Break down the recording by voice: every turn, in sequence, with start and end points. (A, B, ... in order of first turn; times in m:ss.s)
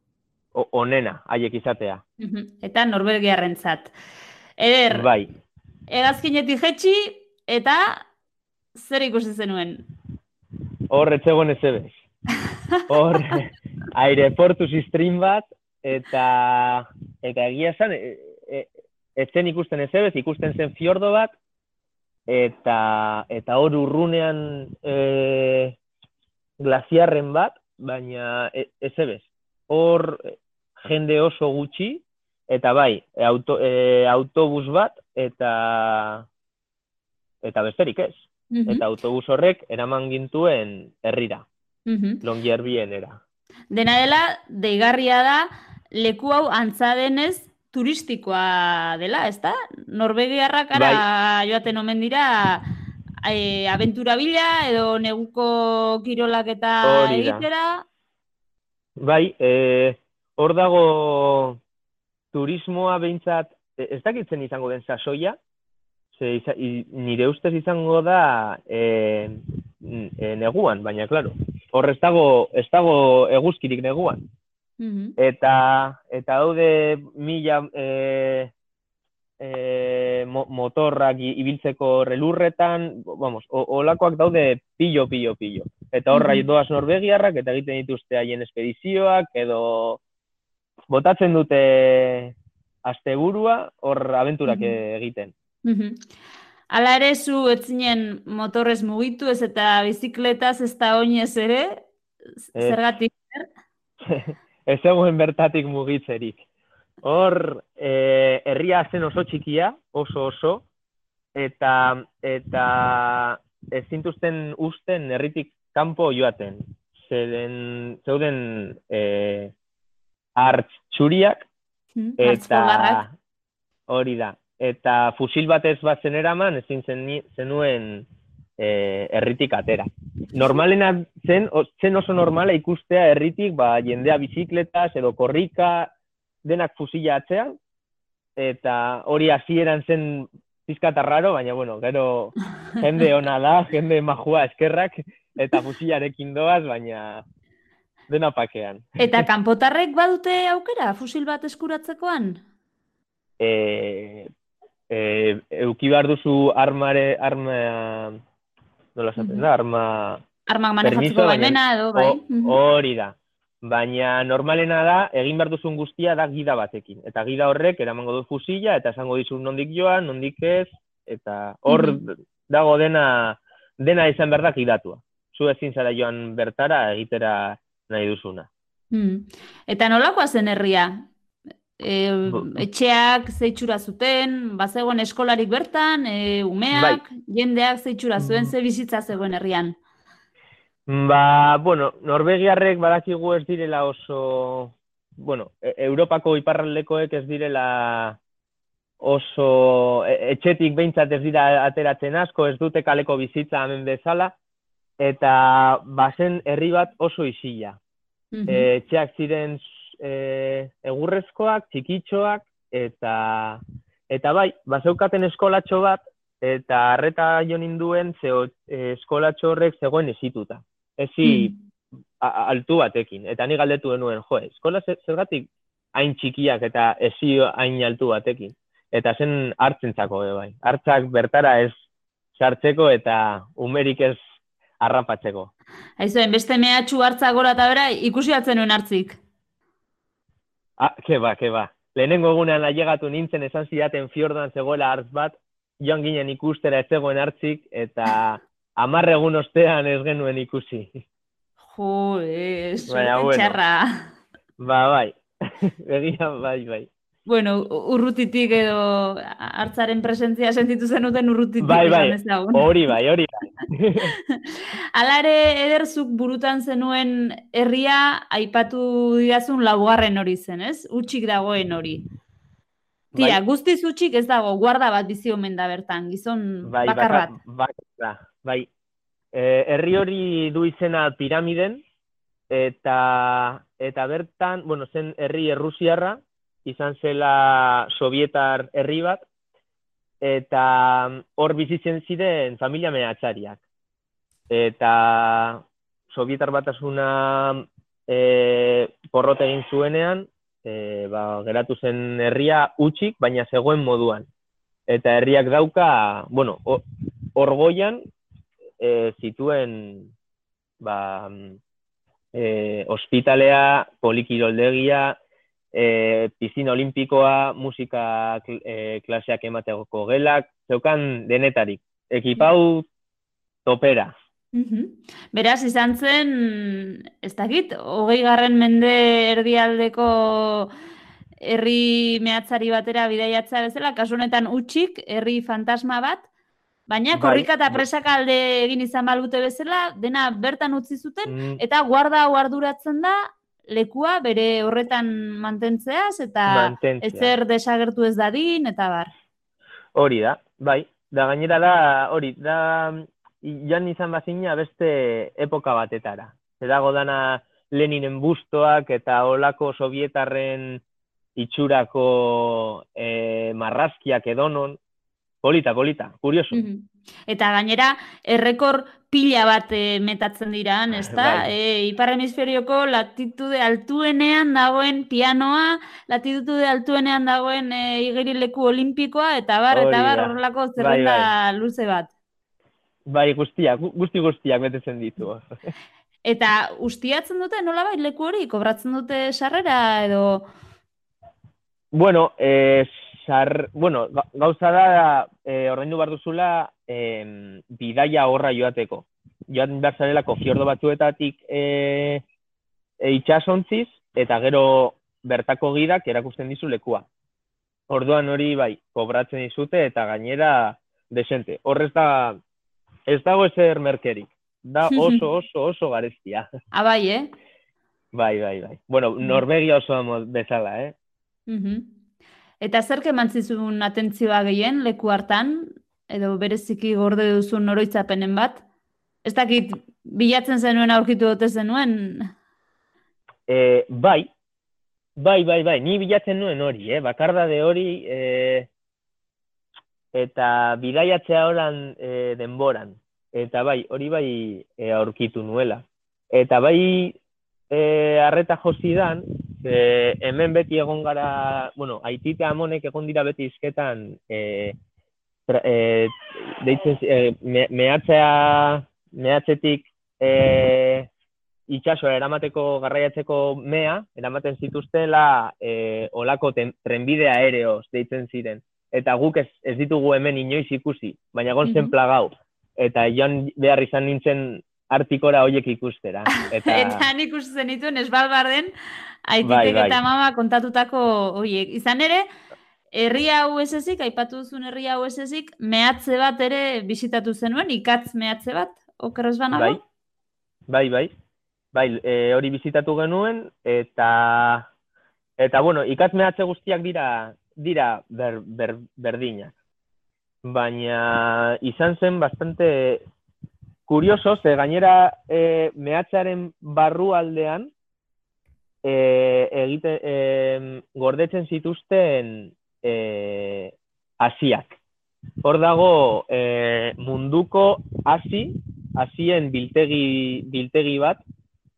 0:00.5-0:02.0 A
0:02.2-0:03.9 B
0:04.6-0:05.1 B
0:04.9-0:05.4 A
0:05.9-0:08.1 B
0:08.8-0:09.9 B
0:10.9-0:11.9 A
0:12.9-0:21.3 A
0:22.3-0:25.8 A
0:26.6-0:36.3 A
0:37.4-0:41.4 A
0:38.5-0:38.8 B
0:41.9-0:42.2 B
0:42.2-0:43.2 A
0:43.7-0:52.7 B
0:50.7-0:51.0 A
0:53.2-0:57.8 B
0:56.8-0:57.5 A
0:59.0-1:01.6 A
1:02.3-1:05.4 A
1:06.1-1:14.2 A
1:14.8-1:15.2 B
1:15.2-1:18.5 A
1:19.4-1:30.0 A
1:26.1-1:26.4 B
1:30.9-1:35.3 A
1:34.4-1:34.8 B
1:35.6-1:36.0 B
1:36.7-1:41.8 B
1:42.4-1:43.5 B
1:44.1-1:46.4 A
1:47.0-1:50.6 A
1:51.4-1:59.5 A
2:00.4-2:01.4 A
2:02.0-2:03.0 B
2:02.2-2:03.1 A
2:03.9-2:08.1 A
2:08.6-2:15.9 A
2:16.4-2:17.5 A
2:18.4-2:27.2 A
2:28.1-2:29.2 A
2:29.0-2:32.4 B
2:33.4-2:34.3 A
2:34.9-2:38.2 A
2:39.0-2:40.2 A
2:39.2-2:39.5 B
2:40.5-2:42.6 B
2:40.8-2:58.5 A
2:51.7-2:52.0 B
2:58.9-3:01.1 B
3:01.8-3:09.8 B
3:02.3-3:02.6 A
3:06.7-3:07.0 A
3:08.2-3:08.5 A
3:10.9-3:18.2 A
3:19.0-3:24.4 A
3:25.0-3:27.8 A
3:28.3-3:28.7 B
3:28.5-3:41.6 A
3:41.2-3:41.5 B
3:42.2-3:51.7 A
3:52.4-3:54.2 A
3:54.8-3:55.5 A
3:56.0-3:59.2 B
4:00.8-4:11.0 A
4:11.7-4:14.1 B
4:12.9-4:13.6 A
4:14.6-4:16.9 A
4:17.3-4:22.9 B
4:21.6-4:24.1 A
4:24.3-4:32.1 B
4:33.1-4:37.4 B
4:33.2-4:33.4 A
4:36.6-4:38.7 A
4:39.3-4:41.8 A
4:42.5-4:49.2 A
4:50.2-4:53.6 A
4:54.5-5:04.3 A
5:04.9-5:06.8 A
5:07.4-5:08.0 A
5:08.8-5:10.1 A
5:10.8-5:11.6 A
5:12.3-5:15.2 A
5:15.7-5:22.9 A
5:23.7-5:24.1 A
5:24.5-5:30.7 B
5:31.4-5:36.2 B
5:36.9-5:49.1 B
5:37.1-5:37.8 A
5:41.3-5:41.6 A
5:46.5-5:47.4 A
5:50.0-6:00.8 A
6:01.4-6:04.8 A
6:05.4-6:06.7 A
6:06.5-6:22.1 B
6:10.9-6:11.5 A
6:19.7-6:21.3 A
6:23.1-6:25.4 A
6:26.2-6:30.4 B
6:31.9-6:42.2 A
6:43.0-6:47.0 A
6:47.9-6:52.4 A
6:53.1-6:56.5 A
6:54.9-6:55.2 B
6:56.7-6:57.3 B
6:58.1-7:01.0 A
7:01.5-7:01.9 B
7:02.6-7:08.6 B
7:09.2-7:12.3 B
7:13.5-7:14.3 A
7:15.2-7:18.7 A
7:20.1-7:27.2 A
7:27.7-7:34.8 A
7:35.5-7:41.1 A
7:41.7-7:57.1 A
7:51.6-7:51.9 B
7:56.6-7:58.7 B
7:59.3-8:02.3 B
7:59.4-8:00.0 A
8:02.9-8:09.8 B
8:09.5-8:09.8 A
8:10.7-8:11.1 A
8:11.7-8:14.7 A
8:15.4-8:19.5 A
8:20.4-8:23.0 A
8:23.9-8:27.7 A
8:28.8-8:34.8 A
8:35.4-8:41.2 A